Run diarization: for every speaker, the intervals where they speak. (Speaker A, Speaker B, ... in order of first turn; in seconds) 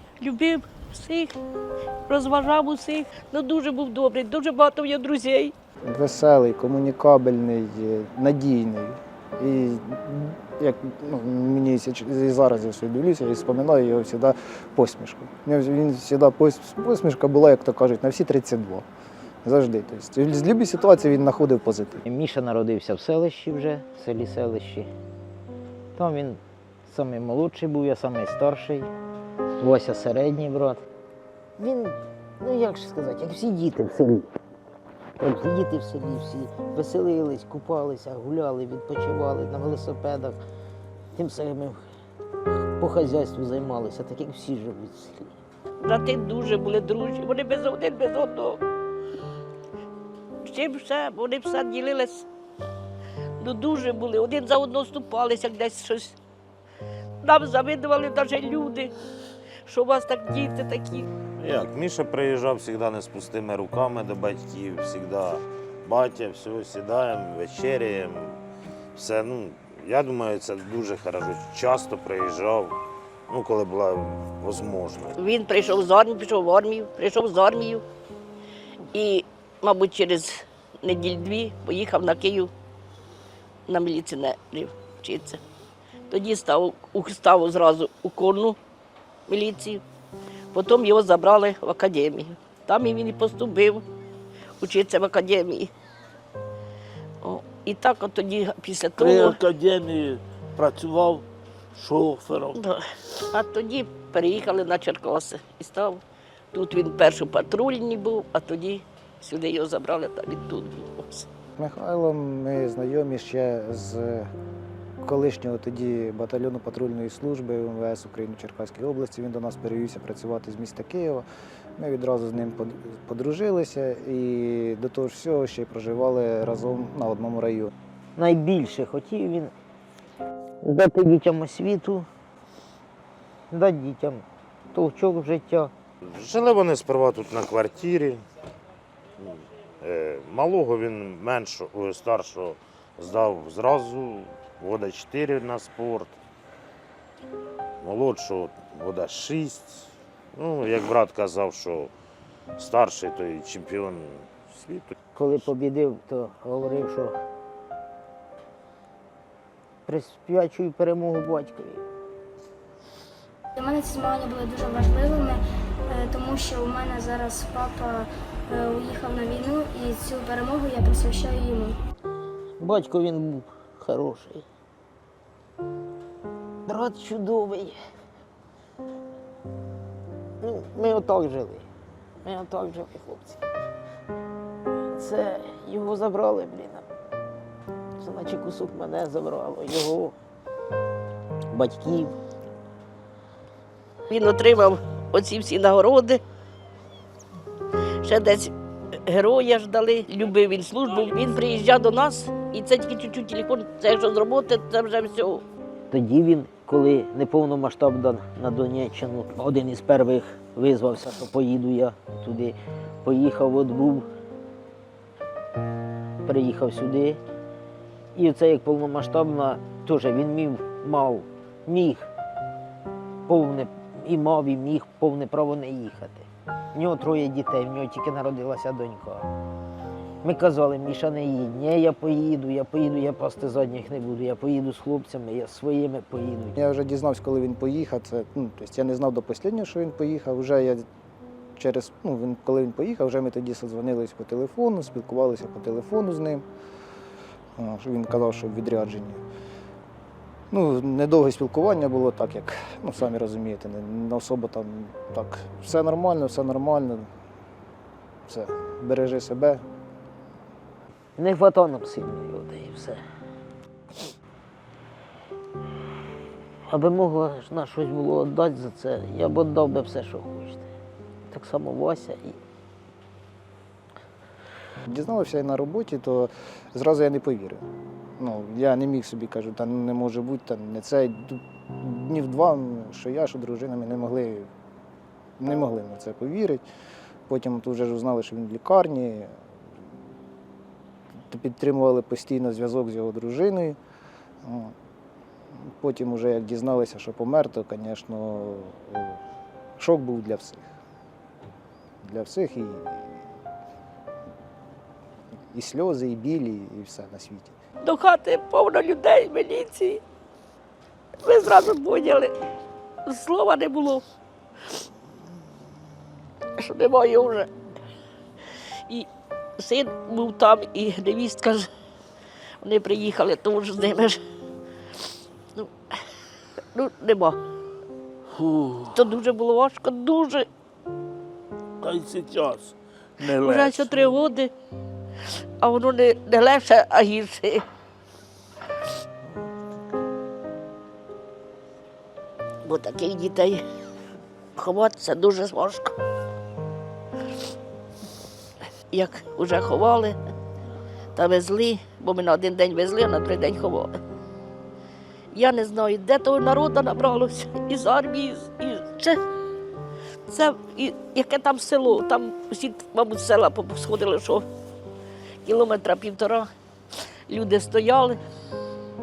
Speaker A: 0.2-1.3, 2.1-5.5, 45.8-48.6, 50.4-52.2, 53.4-56.1, 57.2-58.9, 59.6-61.1, 75.2-77.8, 78.9-82.5, 83.7-85.4, 86.1-88.6, 89.3-89.8, 90.5-93.8, 94.6-95.7, 97.2-99.4, 102.5-106.0, 106.5-111.2, 194.1-196.2, 198.0-198.5, 199.1-205.4, 307.8-310.0, 311.2-312.3, 313.1-314.0, 316.6-317.5, 319.6-321.7, 322.6-324.2, 326.7-327.4, 328.9-330.5, 333.2-334.5, 335.6-337.6, 342.6-343.6, 344.6-345.9, 348.9-350.2, 351.1-354.0, 355.3-359.2, 360.3-364.4, 365.4-366.5, 367.3-368.2
Speaker B: 5.8-18.9, 19.4-22.0, 111.6-114.3, 115.0-121.2, 121.8-127.7, 236.6-240.8, 241.6-246.4, 247.6-249.2, 250.5-257.1, 258.3-259.6, 274.9-277.6, 278.2-284.5, 285.4-286.6, 287.3-289.3, 291.3-293.8, 294.4-294.7, 295.6-299.2, 299.8-300.7, 302.0-303.2, 305.5-307.5
Speaker C: 22.1-24.9, 25.9-28.9, 29.6-30.8, 31.6-34.3, 35.2-40.4, 41.1-41.8, 42.8-45.3, 128.2-129.5, 130.6-132.1, 133.5-135.7, 155.1-157.2, 159.8-161.8, 172.6-174.4, 176.7-177.8, 180.4-181.7, 182.2-183.4, 184.9-186.8, 188.0-190.1, 191.5-192.1, 205.9-214.1, 216.2-217.2, 218.1-222.1, 223.3-229.3, 230.2-236.5, 261.2-263.0, 266.7-270.6, 271.3-272.4
Speaker D: 61.4-68.4, 68.9-72.8, 73.3-75.2, 136.1-138.2, 139.2-146.2, 147.8-151.9, 152.6-154.9
Speaker E: 99.0-101.2, 101.7-102.6, 328.4-328.9, 331.8-334.1
Speaker F: 163.6-171.8